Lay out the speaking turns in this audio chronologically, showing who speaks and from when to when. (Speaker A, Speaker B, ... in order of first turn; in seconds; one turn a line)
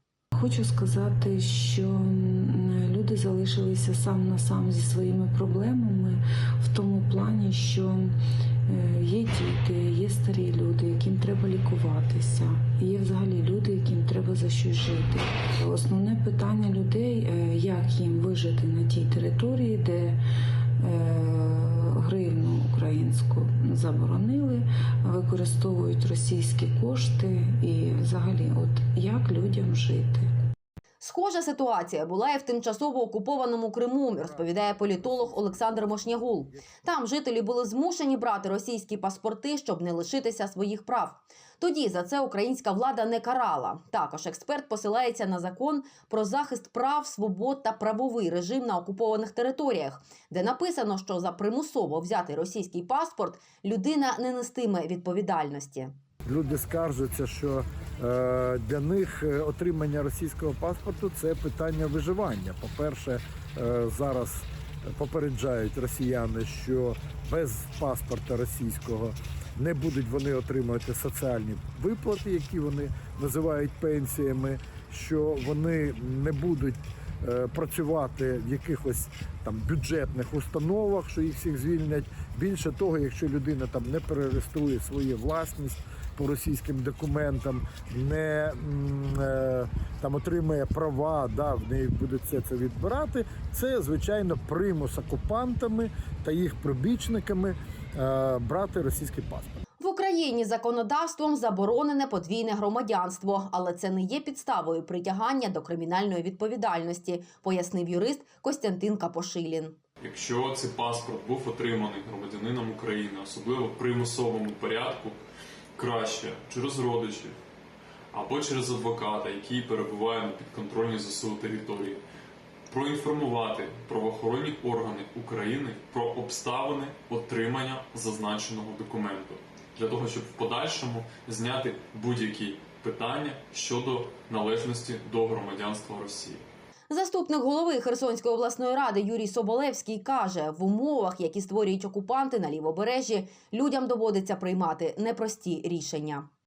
Speaker A: 0.3-8.2
Speaker A: 8.7-20.2
Speaker A: 20.8-30.3
Speaker B: 31.0-55.9
Speaker C: 34.1-36.9
Speaker C: 56.3-99.6
Speaker B: 99.8-109.8
Speaker D: 110.0-115.2
Speaker D: 115.8-117.4
Speaker D: 118.1-122.0
Speaker D: 122.7-136.4
Speaker B: 136.9-146.3